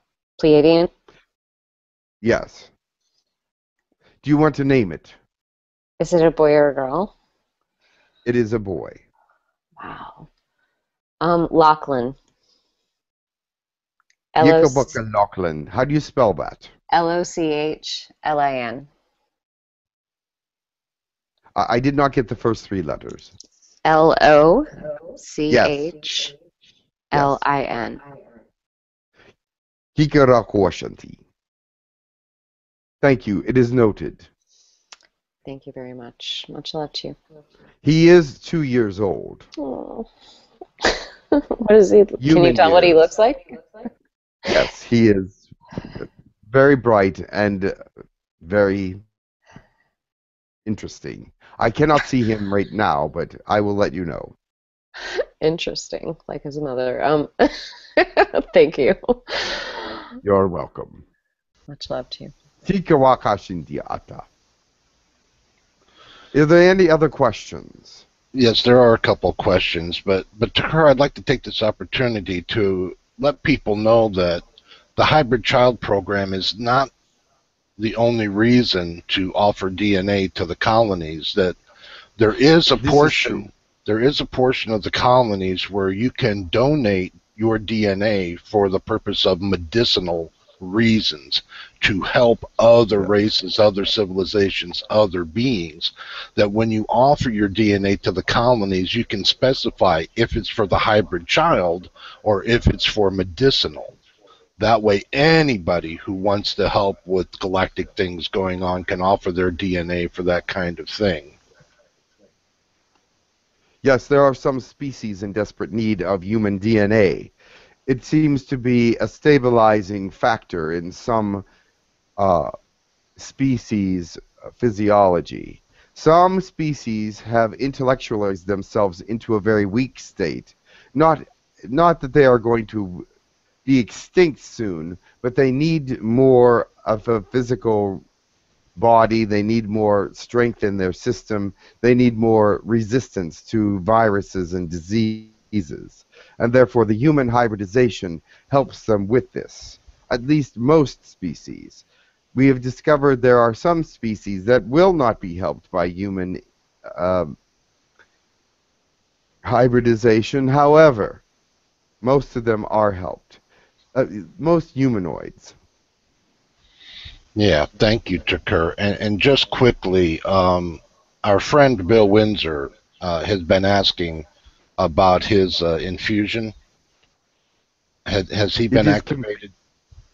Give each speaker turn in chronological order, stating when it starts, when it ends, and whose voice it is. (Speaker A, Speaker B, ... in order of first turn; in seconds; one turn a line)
Speaker A: 0.4-0.9
Speaker B: 2.2-2.7
Speaker B: 4.2-5.2
Speaker A: 6.0-7.1
Speaker B: 8.2-9.0
Speaker A: 9.8-10.3
Speaker A: 11.2-12.2
Speaker A: 14.3-15.0
Speaker B: 14.4-16.7
Speaker A: 16.9-18.9
Speaker B: 21.6-23.3
Speaker A: 23.8-26.3
Speaker B: 25.5-26.1
Speaker A: 27.1-28.0
Speaker B: 27.1-27.4
Speaker B: 30.0-31.2
Speaker B: 33.0-34.3
Speaker A: 35.5-37.2
Speaker B: 37.8-39.5
Speaker A: 39.6-40.1
Speaker A: 40.8-43.9
Speaker B: 42.2-43.1
Speaker B: 44.5-47.8
Speaker B: 48.4-49.0
Speaker B: 50.7-54.4
Speaker A: 55.1-60.0
Speaker B: 60.2-61.0
Speaker A: 61.7-62.3
Speaker B: 62.6-64.3
Speaker B: 66.3-68.1
Speaker C: 68.3-74.4
Speaker C: 75.0-76.9
Speaker C: 77.8-81.6
Speaker C: 82.2-104.0
Speaker B: 82.8-83.5
Speaker C: 104.6-111.4
Speaker B: 113.8-117.3
Speaker B: 117.9-121.5
Speaker B: 122.2-122.5
Speaker B: 123.2-133.1
Speaker B: 133.7-138.0
Speaker B: 138.8-157.4
Speaker B: 159.4-161.2
Speaker B: 162.0-163.4
Speaker B: 163.9-165.6
Speaker C: 167.4-174.3
Speaker C: 174.8-176.5
Speaker C: 178.1-179.5
Speaker B: 178.7-179.3